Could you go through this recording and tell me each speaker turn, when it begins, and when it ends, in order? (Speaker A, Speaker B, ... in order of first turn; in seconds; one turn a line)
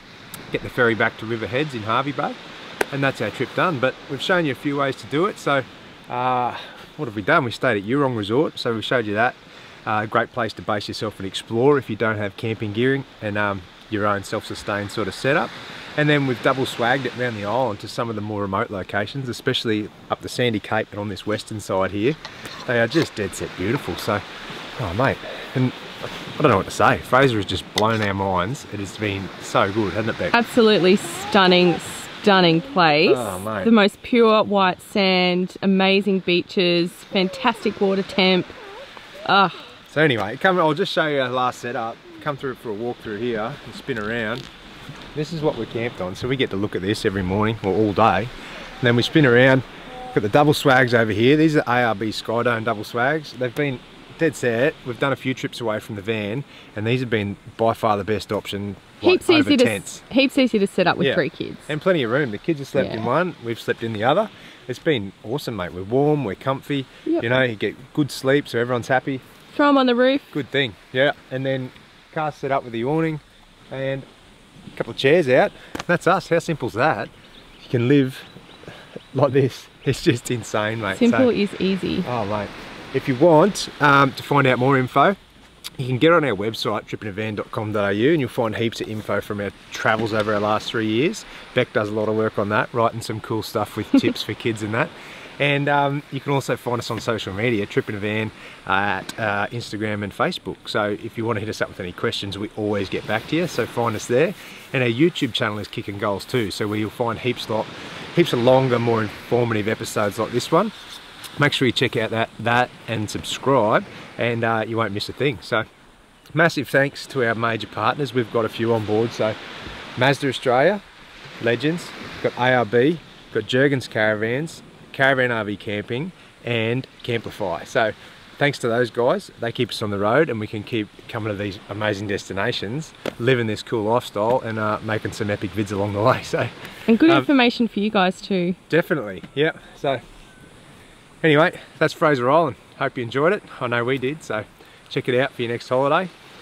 Speaker A: 0.5-2.4
Speaker A: 2.9-24.2
Speaker A: 24.8-30.4
Speaker B: 30.3-38.6
Speaker A: 33.0-33.7
Speaker B: 39.3-39.7
Speaker A: 39.9-44.5
Speaker A: 45.1-60.0
Speaker B: 59.0-61.7
Speaker A: 61.0-69.2
Speaker B: 62.8-63.1
Speaker B: 69.5-70.3
Speaker A: 70.3-74.1
Speaker A: 74.8-78.3
Speaker A: 79.1-81.3
Speaker B: 80.9-82.1
Speaker A: 82.0-85.2
Speaker A: 85.8-110.7
Speaker A: 111.4-115.7
Speaker A: 116.3-119.4
Speaker A: 120.0-120.8
Speaker A: 121.4-136.5
Speaker B: 136.9-138.6
Speaker A: 137.0-137.3
Speaker A: 138.7-140.0
Speaker A: 141.2-146.1